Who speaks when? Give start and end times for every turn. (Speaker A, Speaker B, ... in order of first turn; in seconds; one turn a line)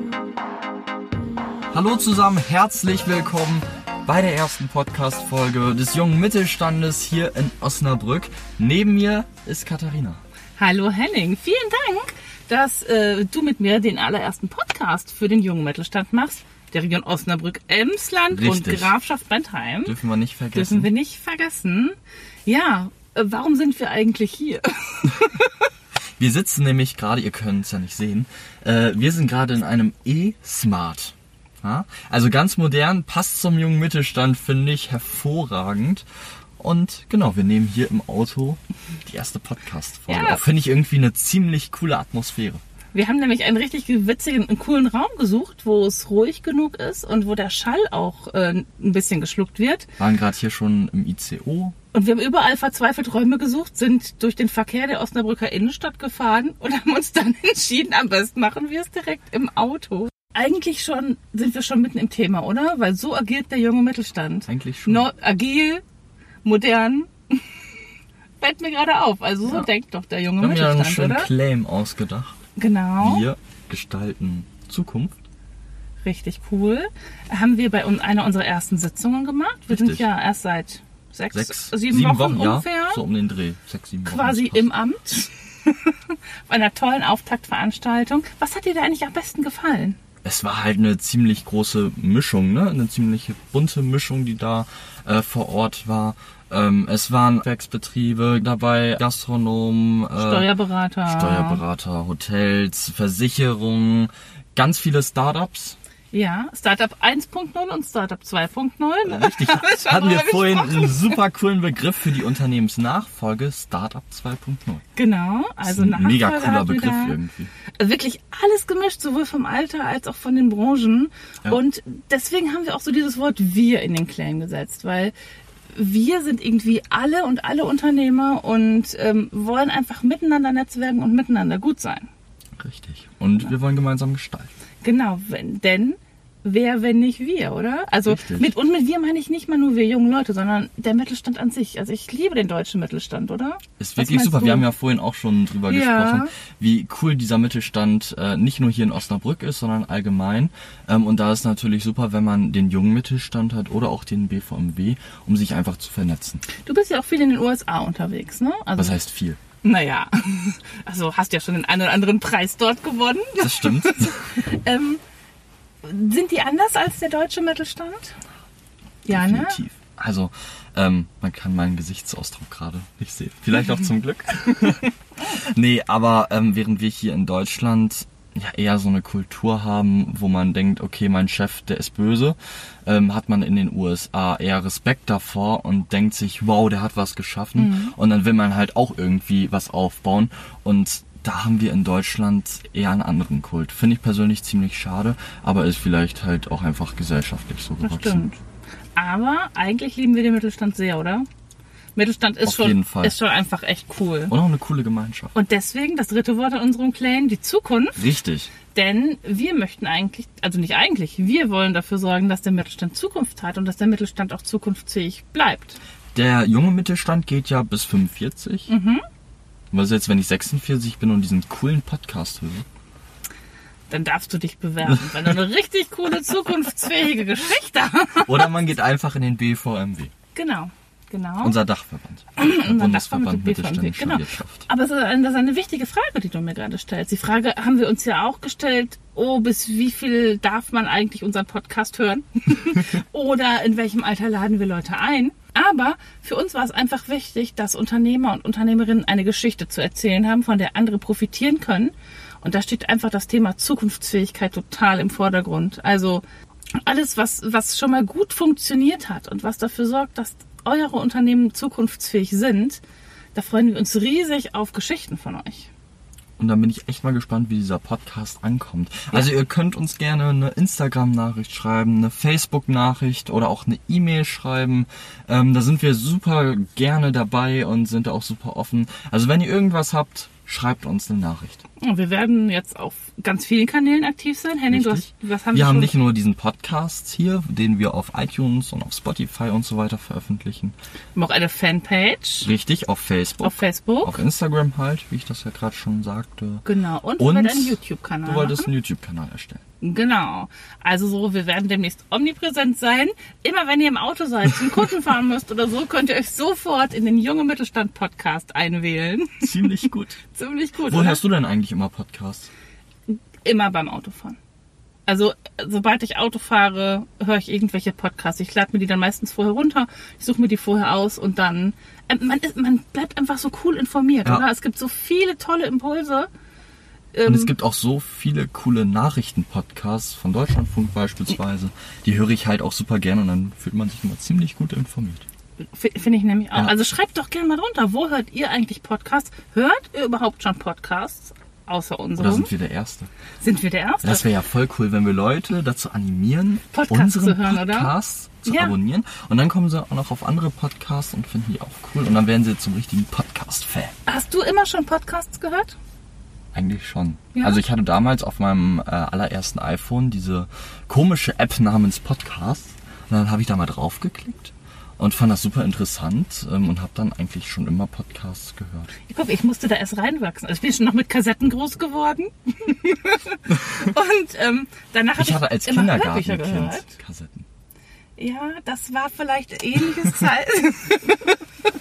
Speaker A: 1.7-10.2
Speaker B: 10.6-20.0
Speaker A: 18.3-18.9
Speaker A: 19.9-20.9
Speaker B: 20.5-21.9
Speaker B: 22.5-25.7
Speaker A: 26.2-36.0
Speaker A: 36.6-42.6
Speaker B: 40.1-40.4
Speaker B: 42.9-49.9
Speaker A: 50.0-51.8
Speaker B: 51.9-65.8
Speaker A: 64.5-65.1
Speaker B: 66.4-67.5
Speaker B: 68.4-71.3
Speaker A: 70.4-72.3
Speaker B: 72.6-73.3
Speaker A: 73.0-75.2
Speaker B: 76.0-83.0
Speaker A: 79.7-80.1
Speaker A: 81.3-84.7
Speaker B: 84.0-90.0
Speaker A: 90.2-100.5
Speaker B: 100.2-101.6
Speaker A: 101.1-105.8
Speaker B: 106.1-111.2
Speaker A: 109.1-114.8
Speaker B: 115.0-117.2
Speaker A: 115.7-117.5
Speaker B: 117.7-125.1
Speaker B: 125.7-132.1
Speaker A: 132.6-134.5
Speaker B: 134.8-144.7
Speaker A: 138.1-138.5
Speaker A: 143.8-156.4
Speaker B: 145.7-146.3
Speaker B: 156.5-159.0
Speaker A: 158.8-159.4
Speaker B: 159.6-165.0
Speaker A: 163.4-164.1
Speaker B: 165.8-168.2
Speaker B: 169.1-169.6
Speaker A: 169.1-174.9
Speaker A: 175.4-198.2
Speaker B: 187.6-187.9
Speaker B: 197.8-198.4
Speaker B: 198.9-201.3
Speaker B: 202.0-204.3
Speaker A: 202.4-203.1
Speaker A: 204.3-205.3
Speaker B: 205.3-208.0
Speaker A: 208.0-208.5
Speaker B: 208.7-215.8
Speaker A: 216.1-218.7
Speaker B: 218.7-219.0
Speaker A: 219.7-222.7
Speaker B: 223.9-228.6
Speaker A: 224.9-225.4
Speaker A: 228.3-230.1
Speaker B: 230.3-231.6
Speaker A: 231.4-234.6
Speaker B: 232.4-256.2
Speaker B: 256.8-262.8
Speaker B: 263.3-265.7
Speaker A: 266.4-281.6
Speaker B: 281.8-285.9
Speaker A: 284.7-290.8
Speaker B: 291.1-292.5
Speaker A: 292.4-296.6
Speaker B: 293.4-294.2
Speaker B: 296.6-298.7
Speaker A: 297.2-299.6
Speaker B: 299.8-309.7
Speaker A: 309.4-310.2
Speaker B: 310.3-311.2
Speaker A: 310.9-312.5
Speaker B: 313.1-314.4
Speaker B: 315.1-326.3
Speaker B: 327.1-327.5
Speaker A: 327.2-335.2
Speaker B: 335.7-342.5
Speaker A: 342.2-343.1
Speaker B: 343.4-344.3
Speaker A: 344.0-353.9
Speaker B: 346.7-347.9
Speaker B: 348.4-348.8
Speaker B: 354.1-355.8
Speaker A: 356.5-368.9
Speaker B: 357.4-357.6
Speaker B: 369.1-376.9
Speaker A: 375.2-377.4
Speaker B: 378.2-381.4